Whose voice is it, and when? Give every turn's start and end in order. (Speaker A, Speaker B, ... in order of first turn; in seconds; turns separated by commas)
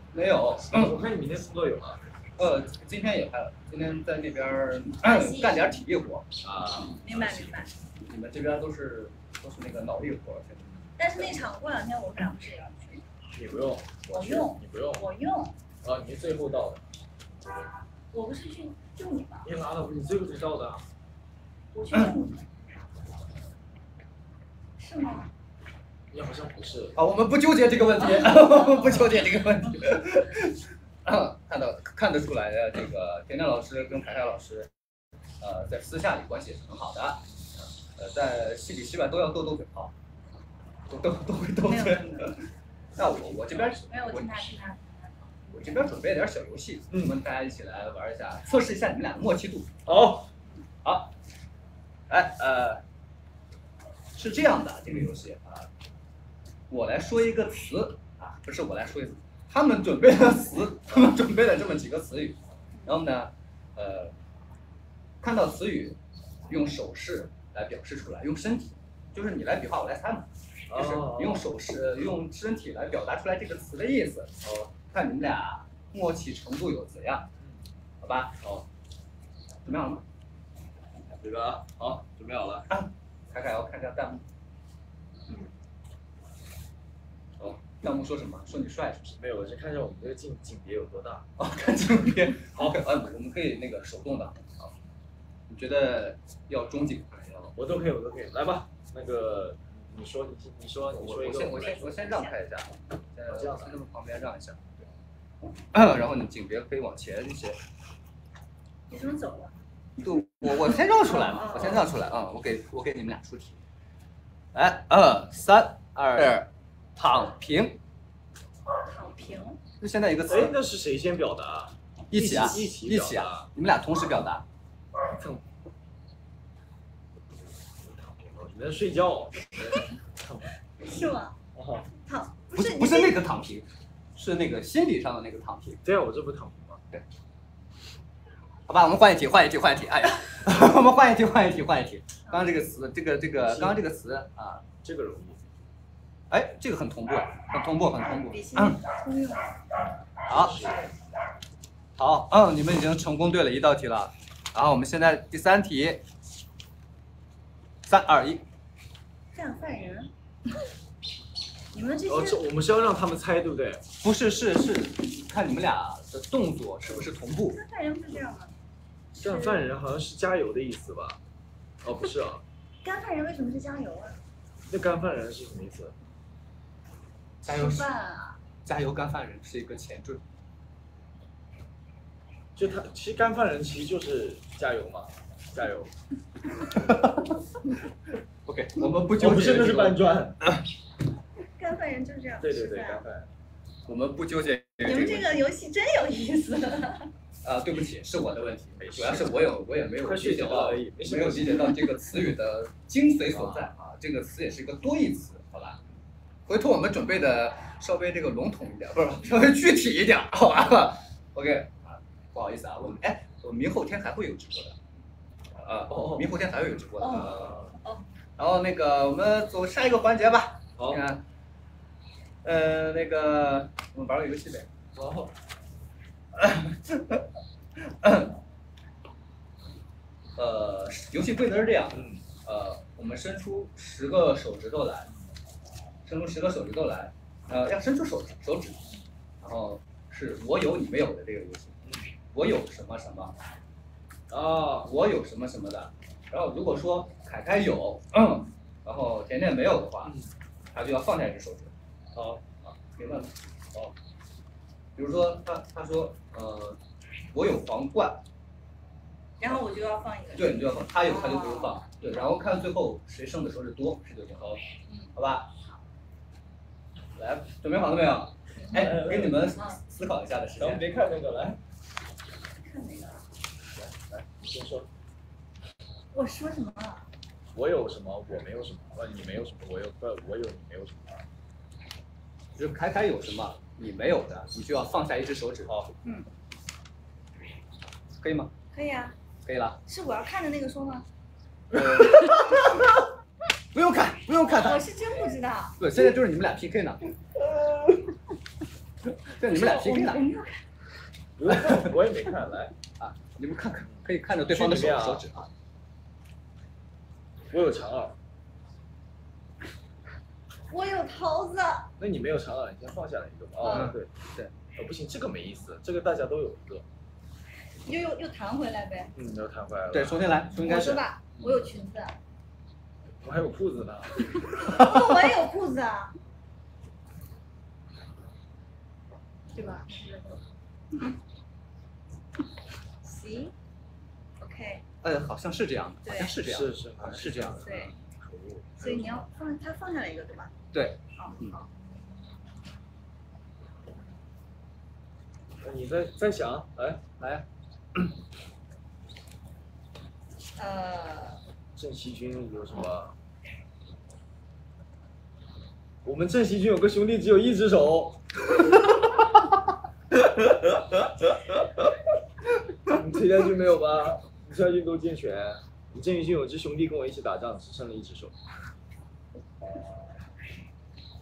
Speaker A: 0.1-1.0, Speaker B: 0.6-2.0, Speaker A: 2.4-6.3, Speaker C: 5.0-5.8, Speaker B: 6.4-7.7, Speaker C: 6.7-7.7, Speaker A: 8.0-11.4, Speaker C: 11.0-13.0, Speaker B: 13.3-15.1, Speaker C: 14.1-15.6, Speaker B: 15.8-17.6, Speaker C: 18.1-19.5, Speaker B: 19.4-20.8, Speaker C: 21.7-22.4, Speaker C: 24.8-25.3, Speaker B: 26.1-27.0, Speaker A: 26.9-34.7, Speaker A: 35.4-37.2, Speaker A: 38.0-39.9, Speaker A: 40.9-44.6, Speaker C: 41.6-42.4, Speaker B: 43.0-43.8, Speaker C: 43.9-45.9, Speaker A: 45.5-49.8, Speaker B: 46.9-47.2, Speaker B: 49.9-50.3, Speaker A: 50.8-51.1, Speaker A: 52.1-52.8, Speaker A: 54.1-55.7, Speaker A: 56.7-64.1, Speaker C: 62.7-63.0, Speaker A: 65.2-66.0, Speaker A: 66.5-77.3, Speaker B: 70.7-71.5, Speaker B: 74.4-74.7, Speaker A: 78.0-78.6, Speaker A: 79.6-80.0, Speaker B: 81.1-82.7, Speaker A: 82.7-84.2, Speaker A: 87.4-89.2, Speaker B: 89.2-91.3, Speaker A: 91.4-94.6, Speaker A: 95.5-97.5, Speaker B: 97.5-102.1, Speaker A: 101.0-104.7, Speaker B: 103.3-103.8, Speaker A: 105.5-107.6, Speaker C: 108.9-109.5, Speaker A: 110.0-113.6, Speaker C: 111.0-111.8, Speaker A: 114.5-117.8, Speaker B: 116.0-116.3, Speaker C: 118.8-119.6, Speaker A: 119.8-120.5, Speaker B: 120.3-123.5, Speaker A: 122.1-124.4, Speaker B: 125.2-125.4, Speaker B: 127.8-130.5, Speaker C: 130.8-131.4, Speaker B: 131.5-131.9, Speaker C: 132.0-133.2, Speaker A: 132.5-135.8, Speaker B: 135.8-136.8, Speaker A: 138.7-144.6, Speaker B: 143.4-143.8, Speaker B: 144.8-145.5, Speaker A: 146.3-148.8, Speaker C: 148.0-149.6, Speaker A: 150.3-150.6, Speaker B: 150.3-150.9, Speaker A: 151.9-156.0, Speaker A: 157.8-158.4, Speaker C: 159.3-160.1, Speaker C: 161.7-162.4, Speaker B: 162.1-163.8, Speaker A: 164.0-167.6, Speaker C: 167.5-168.5, Speaker C: 169.1-169.7, Speaker B: 169.2-171.2, Speaker B: 171.8-172.4, Speaker C: 172.8-174.2, Speaker B: 174.7-175.9, Speaker A: 177.4-177.9, Speaker C: 177.4-178.4, Speaker A: 178.6-180.2, Speaker B: 182.5-185.9, Speaker A: 186.7-187.4, Speaker A: 188.4-190.7, Speaker B: 189.1-190.4, Speaker C: 191.5-193.1, Speaker B: 192.4-193.3, Speaker A: 193.8-195.4, Speaker C: 194.8-197.1, Speaker A: 197.4-205.8, Speaker B: 198.7-199.4, Speaker B: 200.0-201.8, Speaker B: 203.3-203.7, Speaker A: 206.5-214.8, Speaker A: 215.6-217.6, Speaker B: 215.9-216.3, Speaker C: 217.0-218.0, Speaker B: 217.1-217.7, Speaker A: 218.4-221.2, Speaker B: 220.8-221.0, Speaker A: 222.4-224.7, Speaker B: 224.9-225.3, Speaker A: 226.3-227.2, Speaker A: 227.8-228.4, Speaker A: 230.3-235.1, Speaker B: 231.9-232.2, Speaker A: 236.0-238.8, Speaker A: 239.4-241.8, Speaker B: 241.8-242.1, Speaker A: 242.3-243.3, Speaker B: 244.3-244.9, Speaker A: 244.8-250.2, Speaker A: 250.7-253.9, Speaker A: 254.9-256.8, Speaker A: 257.3-258.2, Speaker C: 259.4-261.8, Speaker A: 260.4-264.6, Speaker A: 265.1-265.5, Speaker A: 267.2-270.9, Speaker B: 268.7-269.6, Speaker C: 269.5-269.8, Speaker B: 270.6-271.6, Speaker C: 272.5-273.2, Speaker B: 273.9-274.9, Speaker C: 276.1-277.1, Speaker B: 277.5-281.2, Speaker A: 282.5-285.7, Speaker B: 285.7-285.9, Speaker A: 288.2-288.5, Speaker C: 288.7-289.1, Speaker A: 289.4-289.8, Speaker C: 289.9-291.1, Speaker A: 291.7-293.0, Speaker A: 293.7-294.8, Speaker C: 294.4-295.8, Speaker A: 295.8-297.1, Speaker A: 299.2-300.2, Speaker C: 299.5-300.6, Speaker B: 301.4-302.7, Speaker A: 301.5-301.9, Speaker A: 303.0-305.5, Speaker B: 303.9-305.2, Speaker B: 307.5-308.2, Speaker C: 310.7-311.9, Speaker B: 312.0-314.1, Speaker C: 313.6-313.9, Speaker A: 313.6-314.5, Speaker B: 314.7-316.8, Speaker C: 317.8-319.1, Speaker B: 319.1-320.6, Speaker A: 319.9-321.5, Speaker C: 320.6-322.2, Speaker B: 323.2-324.4, Speaker C: 324.6-326.1, Speaker A: 324.7-325.0, Speaker C: 329.5-330.4, Speaker C: 333.0-333.5, Speaker C: 334.4-334.8, Speaker A: 335.0-337.7, Speaker C: 336.0-336.3, Speaker B: 336.4-339.2, Speaker C: 337.6-337.9, Speaker C: 338.8-340.5, Speaker A: 340.7-341.6, Speaker C: 341.2-341.7, Speaker B: 345.6-347.1, Speaker A: 347.2-347.4, Speaker C: 350.6-351.4, Speaker B: 351.7-353.1, Speaker B: 356.0-359.2, Speaker B: 360.1-362.0, Speaker B: 362.8-368.4